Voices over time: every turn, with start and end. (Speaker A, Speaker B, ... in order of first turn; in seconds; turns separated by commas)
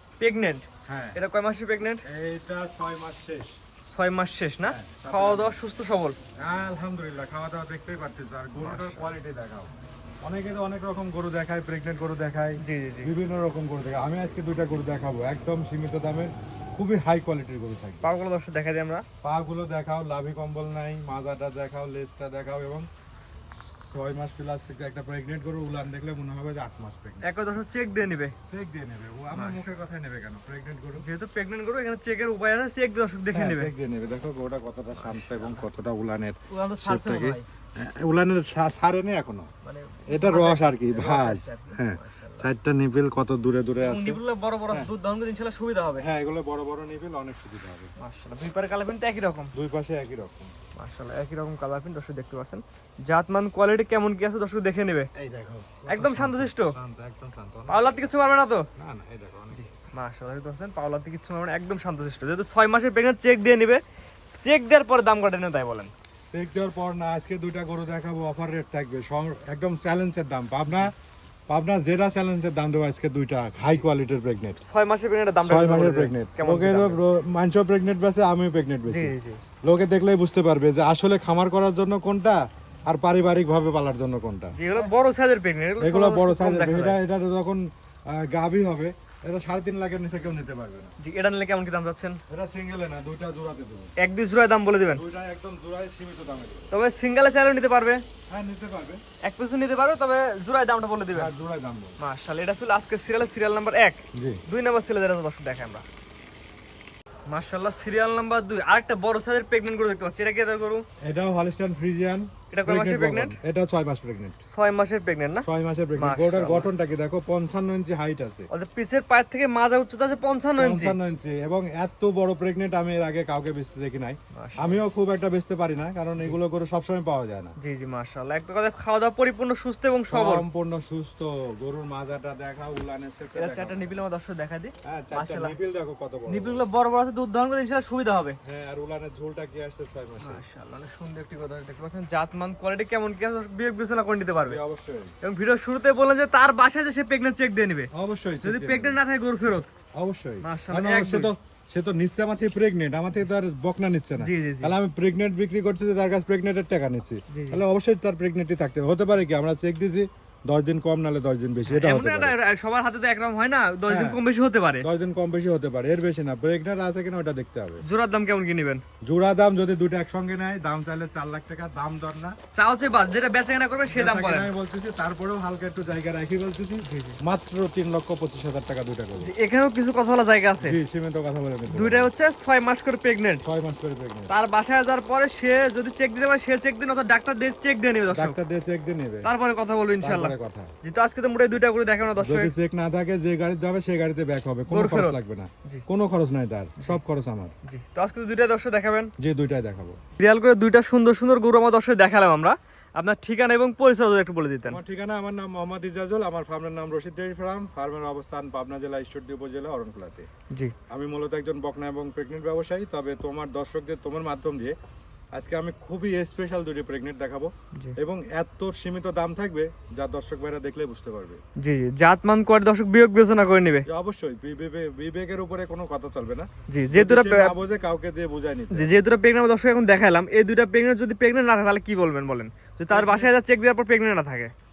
Speaker A: 0.2-2.0, Speaker B: 0.8-1.2, Speaker B: 2.0-3.5, Speaker A: 3.9-6.2, Speaker B: 4.6-5.6, Speaker B: 6.4-18.1, Speaker A: 8.6-9.1, Speaker A: 12.6-13.1, Speaker A: 18.0-19.0, Speaker B: 19.2-22.9, Speaker B: 23.8-27.2, Speaker A: 27.2-28.3, Speaker B: 28.5-31.0, Speaker A: 29.3-29.6, Speaker A: 31.0-33.7, Speaker B: 33.3-39.5, Speaker A: 34.9-35.7, Speaker A: 36.5-37.5, Speaker A: 39.6-42.5, Speaker B: 40.1-44.2, Speaker A: 43.8-46.0, Speaker B: 46.0-47.9, Speaker A: 48.0-49.5, Speaker B: 49.5-50.5, Speaker A: 50.8-55.1, Speaker B: 55.1-58.1, Speaker A: 55.9-56.7, Speaker A: 57.7-58.7, Speaker B: 58.8-59.7, Speaker A: 59.5-63.8, Speaker A: 64.4-65.9, Speaker B: 66.3-70.9, Speaker B: 71.5-74.6, Speaker A: 74.6-77.0, Speaker B: 75.4-79.1, Speaker A: 78.9-79.4, Speaker B: 79.6-84.5, Speaker A: 84.5-87.0, Speaker B: 85.8-90.9, Speaker A: 91.0-92.2, Speaker B: 92.3-93.9, Speaker A: 94.0-95.0, Speaker B: 94.9-96.7, Speaker A: 96.7-98.0, Speaker B: 98.3-99.0, Speaker A: 99.2-101.3, Speaker B: 101.1-102.0, Speaker A: 102.0-105.8, Speaker B: 104.1-104.4, Speaker A: 107.3-110.8, Speaker B: 111.0-114.4, Speaker A: 112.5-113.4, Speaker A: 114.4-116.7, Speaker B: 115.5-118.5, Speaker A: 118.5-121.0, Speaker B: 120.6-127.5, Speaker A: 124.3-124.8, Speaker A: 127.6-130.4, Speaker B: 130.1-134.0, Speaker A: 133.3-135.6, Speaker B: 134.8-136.6, Speaker A: 136.3-138.4, Speaker B: 138.4-140.4, Speaker A: 140.2-144.6, Speaker B: 144.4-145.1, Speaker A: 145.2-147.9, Speaker B: 147.9-149.0, Speaker A: 148.4-149.7, Speaker B: 150.0-162.3, Speaker A: 150.4-151.3, Speaker A: 154.2-154.7, Speaker A: 157.3-157.6, Speaker A: 161.7-164.9, Speaker B: 163.9-164.2, Speaker B: 164.8-167.8, Speaker A: 167.8-168.8, Speaker B: 169.0-172.3, Speaker A: 172.5-174.5, Speaker B: 173.9-179.3, Speaker A: 176.8-177.2, Speaker A: 179.2-180.8, Speaker B: 180.6-182.1, Speaker A: 181.7-183.4, Speaker B: 183.4-184.3, Speaker A: 184.3-188.4, Speaker B: 188.1-189.3, Speaker A: 189.2-192.5, Speaker B: 190.0-190.7, Speaker B: 192.2-197.5, Speaker A: 194.7-195.8, Speaker A: 197.6-199.1, Speaker B: 199.2-200.0, Speaker A: 200.2-204.8, Speaker B: 204.7-210.3, Speaker B: 210.9-214.7, Speaker B: 215.3-221.4, Speaker A: 221.6-223.8, Speaker B: 223.8-228.9, Speaker A: 226.7-227.5, Speaker A: 228.7-234.5, Speaker B: 232.9-233.3